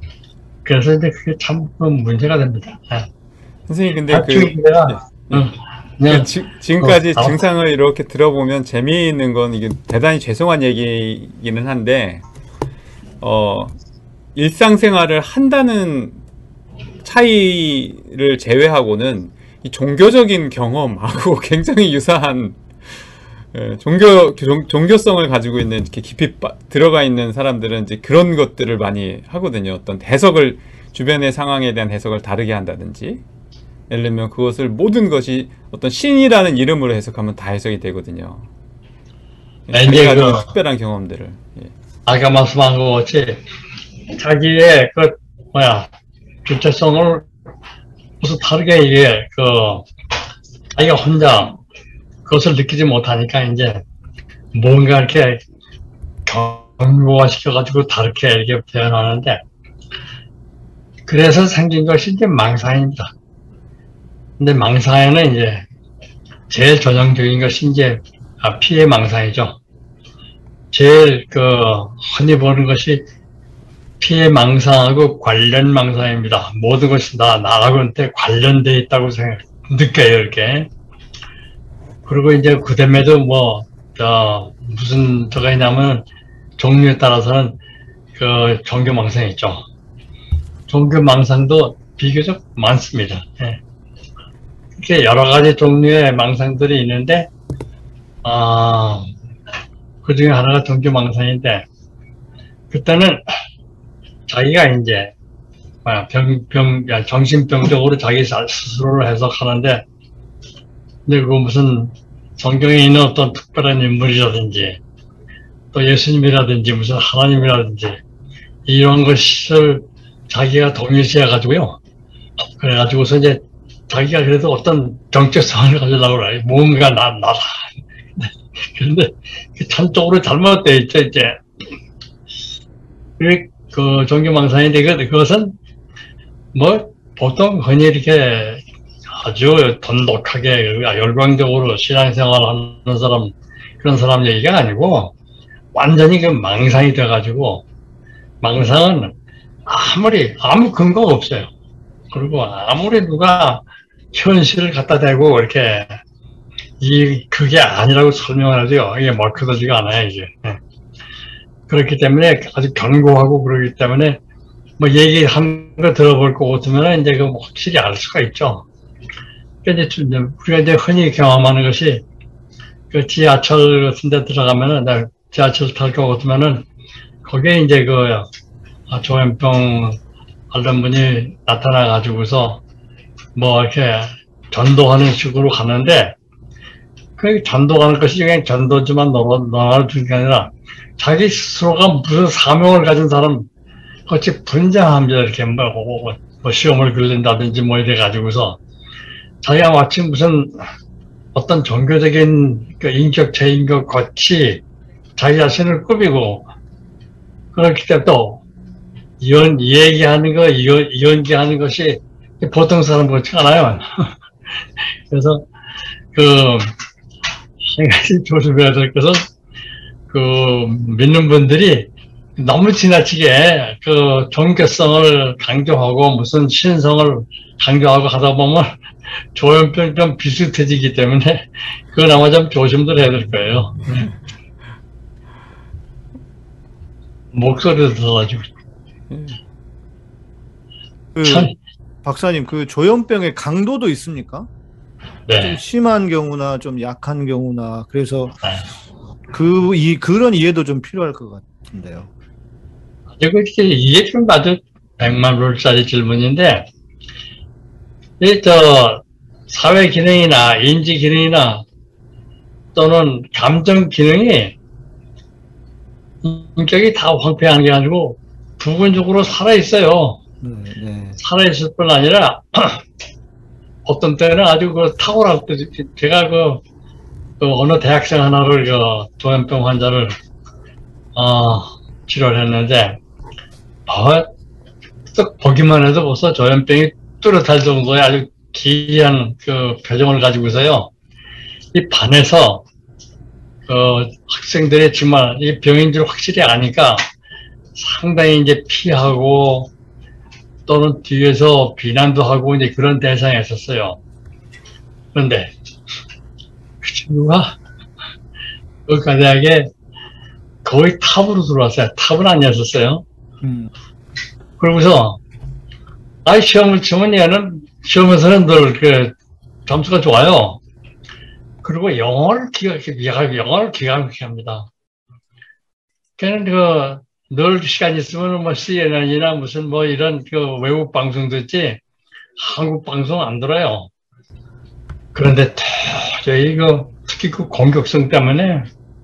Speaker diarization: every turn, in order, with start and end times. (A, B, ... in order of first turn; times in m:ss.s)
0:00.6-0:03.1 A
0:03.7-0:05.5 B
0:04.1-0:07.4 A
0:06.1-0:12.2 B
0:13.2-0:13.8 B
0:14.4-0:16.2 B
0:17.0-0:22.6 B
0:23.5-0:33.2 B
0:33.9-0:38.5 B
0:39.7-0:41.7 B
0:39.7-0:40.5 A
0:42.1-0:43.4 A
0:44.1-0:45.9 A
0:46.4-0:47.3 A
0:48.2-0:49.9 A
0:50.7-0:51.6 A
0:52.3-0:53.8 A
0:54.5-0:55.4 A
0:56.3-0:59.4 A
1:01.1-1:03.1 A
1:04.4-1:05.6 A
1:06.5-1:09.6 A
1:10.7-1:13.0 A
1:14.0-1:20.7 A
1:22.1-1:26.0 A
1:26.6-1:27.6 A
1:28.2-1:29.6 A
1:30.7-1:33.6 A
1:34.8-1:37.3 A
1:38.2-1:39.1 A
1:40.0-1:41.6 A
1:42.7-1:43.2 A
1:44.3-1:45.1 A
1:45.8-1:49.8 A
1:51.1-1:54.8 A
1:55.7-1:58.0 A
1:58.7-2:01.8 A
2:02.6-2:11.4 A
2:13.2-2:15.6 A
2:16.5-2:18.6 A
2:19.1-2:25.1 A
2:25.7-2:27.6 A
2:28.4-2:29.1 A
2:29.7-2:31.5 A
2:32.1-2:36.0 A
2:36.8-2:40.6 A
2:41.7-2:44.2 A
2:44.8-2:48.7 A
2:49.6-2:52.0 A
2:52.9-2:56.7 A
2:57.2-2:58.3 A
2:58.9-3:00.0 A
3:00.5-3:02.6 A
3:03.4-3:06.2 A
3:07.2-3:13.5 A
3:14.1-3:18.6 A
3:19.4-3:20.6 A
3:21.4-3:24.6 A
3:25.2-3:26.5 A
3:27.5-3:28.4 A
3:29.2-3:34.1 A
3:35.1-3:35.4 A
3:36.1-3:36.7 A
3:37.6-3:39.2 A
3:40.1-3:48.7 A
3:49.3-3:54.1 A
3:57.3-3:58.4 A
3:59.1-3:59.4 B
4:01.2-4:01.5 C
4:01.2-4:01.5 A
4:02.0-4:04.5 C
4:05.3-4:05.6 A
4:05.4-4:08.4 C
4:09.3-4:12.1 C
4:13.2-4:16.7 A
4:18.2-4:21.6 A
4:22.8-4:24.6 A
4:26.2-4:30.2 A
4:30.4-4:31.2 C
4:31.2-4:32.8 A
4:33.9-4:36.6 A
4:37.4-4:40.2 A
4:41.2-4:43.0 A
4:43.9-4:44.3 A
4:45.1-4:50.9 A
4:51.7-4:52.6 A
4:53.7-4:57.0 A
4:57.8-4:59.7 A
5:00.7-5:04.0 A
5:05.1-5:05.5 A
5:06.8-5:07.5 A
5:08.9-5:09.7 A
5:10.6-5:13.0 A
5:13.4-5:13.7 C
5:14.6-5:15.2 A
5:16.2-5:19.2 A
5:19.7-5:20.6 A
5:21.6-5:24.7 A
5:26.2-5:31.8 A
5:32.4-5:33.9 A
5:35.2-5:38.7 A